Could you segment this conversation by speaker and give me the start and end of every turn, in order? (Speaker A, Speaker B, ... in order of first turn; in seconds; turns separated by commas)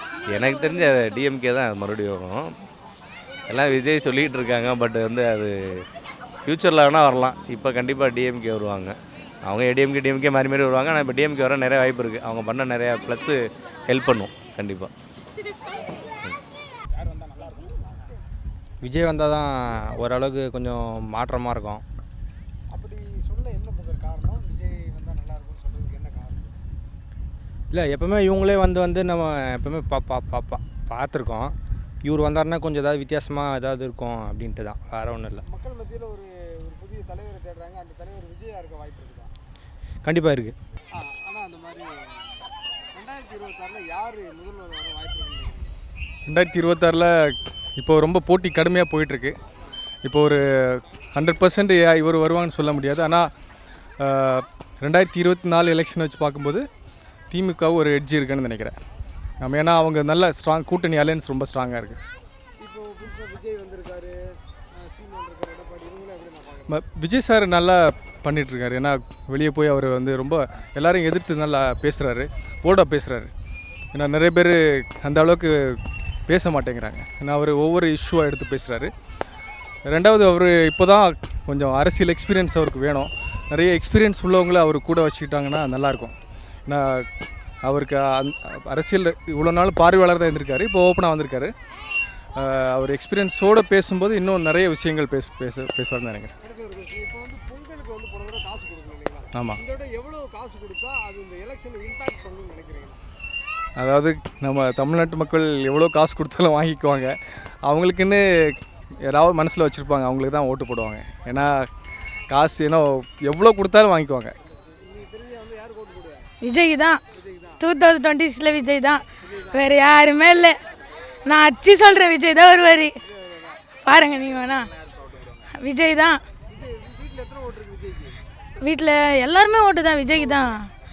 Speaker A: 0.3-2.5, Speaker A: 3.5-5.5, Speaker A: 6.4-14.9, Speaker B: 17.2-18.1, Speaker C: 18.8-21.8, Speaker B: 22.7-26.5, Speaker C: 27.7-35.4, Speaker B: 35.4-39.3, Speaker C: 40.0-40.5, Speaker B: 40.9-45.8, Speaker D: 46.3-49.4, Speaker D: 50.0-53.3, Speaker D: 54.0-56.6, Speaker D: 57.3-58.7, Speaker D: 59.4-62.0, Speaker B: 62.6-66.7, Speaker D: 66.7-73.3, Speaker D: 73.9-75.8, Speaker D: 76.3-78.9, Speaker D: 79.9-86.1, Speaker D: 86.7-87.1, Speaker D: 87.6-91.5, Speaker D: 92.4-96.3, Speaker B: 96.4-103.0, Speaker D: 99.3-99.6, Speaker D: 103.8-107.1, Speaker D: 107.6-111.6, Speaker D: 112.3-114.3, Speaker B: 114.4-116.3, Speaker E: 116.4-117.0, Speaker B: 117.1-117.6, Speaker E: 117.6-120.5, Speaker B: 119.2-120.1, Speaker E: 121.3-122.9, Speaker B: 123.0-123.6, Speaker E: 123.8-124.7, Speaker E: 125.6-126.2, Speaker B: 126.5-128.2, Speaker E: 128.6-130.6, Speaker B: 130.1-130.5